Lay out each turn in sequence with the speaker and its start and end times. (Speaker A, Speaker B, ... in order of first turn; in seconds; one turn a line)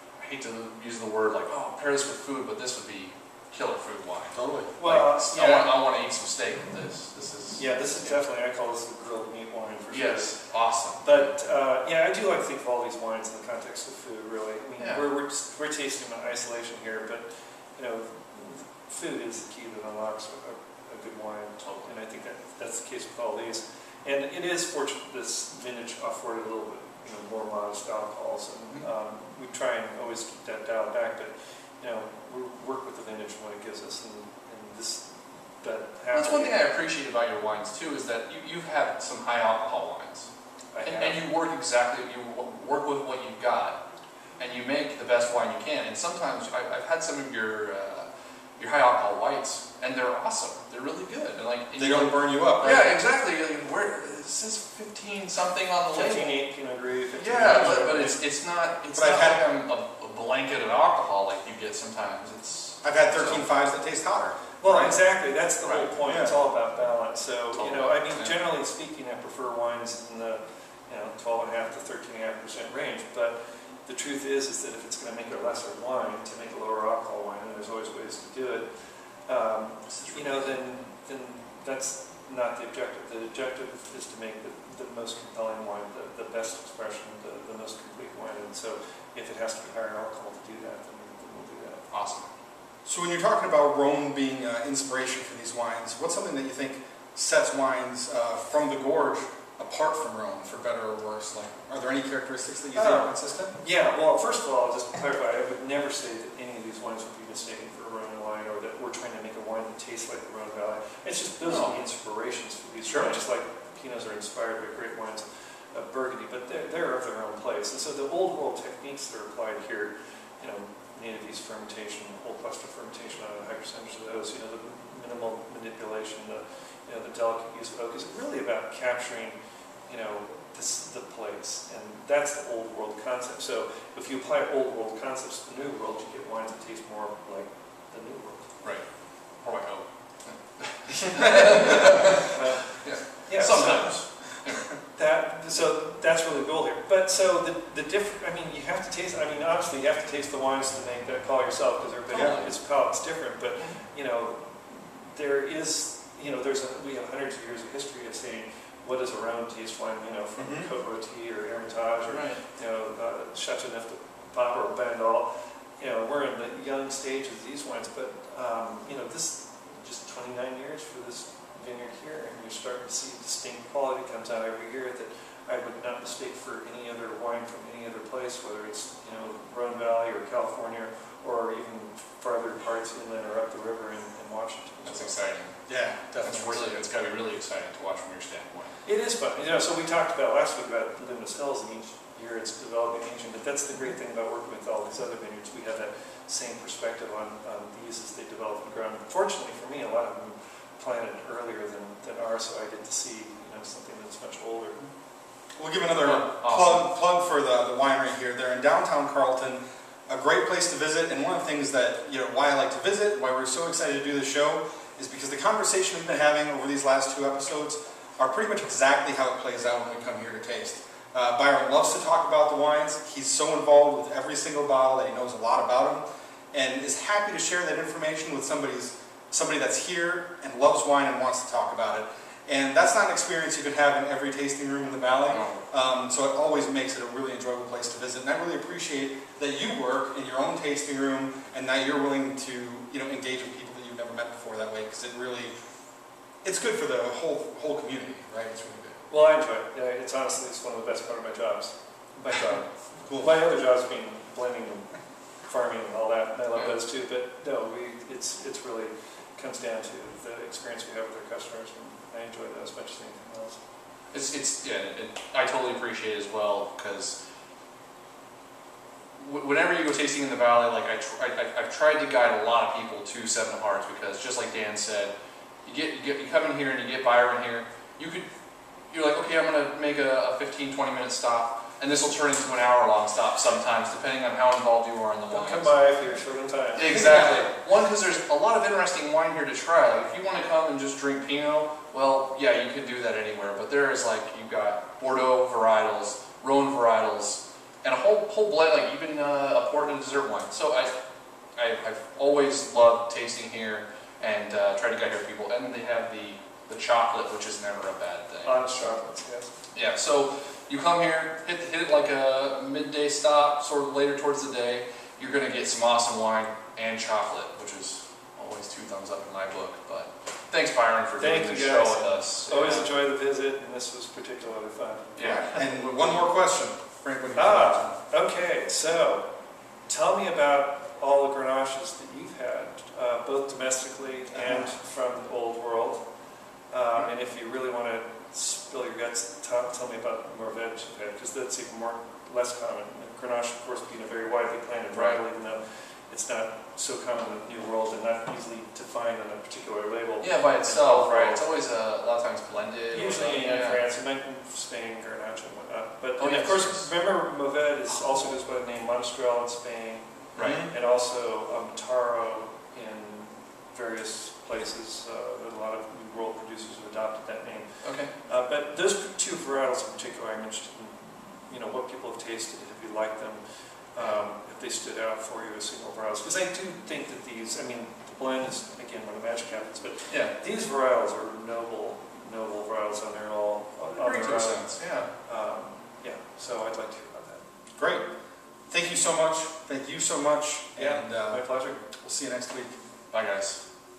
Speaker A: 0.2-8.2
Speaker B: 4.3-4.7
Speaker C: 4.8-5.8
Speaker C: 7.5-36.7
Speaker A: 9.9-11.3
Speaker A: 21.6-21.9
Speaker A: 36.1-40.3
Speaker C: 40.7-41.2
Speaker A: 40.8-43.8
Speaker A: 44.4-56.3
Speaker B: 51.8-53.0
Speaker C: 55.9-58.2
Speaker A: 57.2-63.5
Speaker B: 59.0-59.4
Speaker B: 62.8-64.9
Speaker C: 64.6-73.3
Speaker A: 65.6-65.9
Speaker B: 66.1-66.3
Speaker A: 67.5-68.4
Speaker C: 73.9-91.9
Speaker A: 79.9-80.6
Speaker A: 91.9-92.3
Speaker B: 92.9-103.5
Speaker C: 102.8-129.3
Speaker A: 111.4-111.8
Speaker A: 112.9-113.1
Speaker C: 129.9-138.6
Speaker A: 138.6-144.7
Speaker C: 141.2-185.3
Speaker A: 152.1-152.5
Speaker B: 152.1-152.4
Speaker B: 160.4-160.7
Speaker A: 162.1-162.4
Speaker A: 184.8-185.6
Speaker B: 185.7-186.8
Speaker A: 186.2-188.8
Speaker C: 188.8-204.8
Speaker B: 205.6-245.5
Speaker A: 206.0-206.9
Speaker A: 235.3-235.6
Speaker B: 246.4-249.0
Speaker C: 249.1-263.6
Speaker A: 264.1-267.2
Speaker A: 269.2-275.1
Speaker A: 275.6-278.3
Speaker A: 278.9-285.7
Speaker C: 285.3-287.0
Speaker A: 286.8-301.0
Speaker B: 286.9-287.5
Speaker A: 301.6-308.9
Speaker C: 308.4-309.5
Speaker A: 309.7-322.9
Speaker C: 321.2-325.9
Speaker A: 325.2-325.6
Speaker B: 325.2-327.9
Speaker C: 327.4-329.3
Speaker C: 329.9-336.1
Speaker B: 334.4-334.7
Speaker C: 336.7-351.4
Speaker A: 344.9-345.2
Speaker A: 350.2-353.8
Speaker C: 352.9-387.4
Speaker A: 356.2-356.9
Speaker A: 360.4-360.7
Speaker B: 360.4-360.7
Speaker A: 367.8-368.1
Speaker A: 384.0-385.1
Speaker B: 387.8-388.1
Speaker B: 388.7-392.8
Speaker C: 390.8-391.9
Speaker A: 393.1-393.6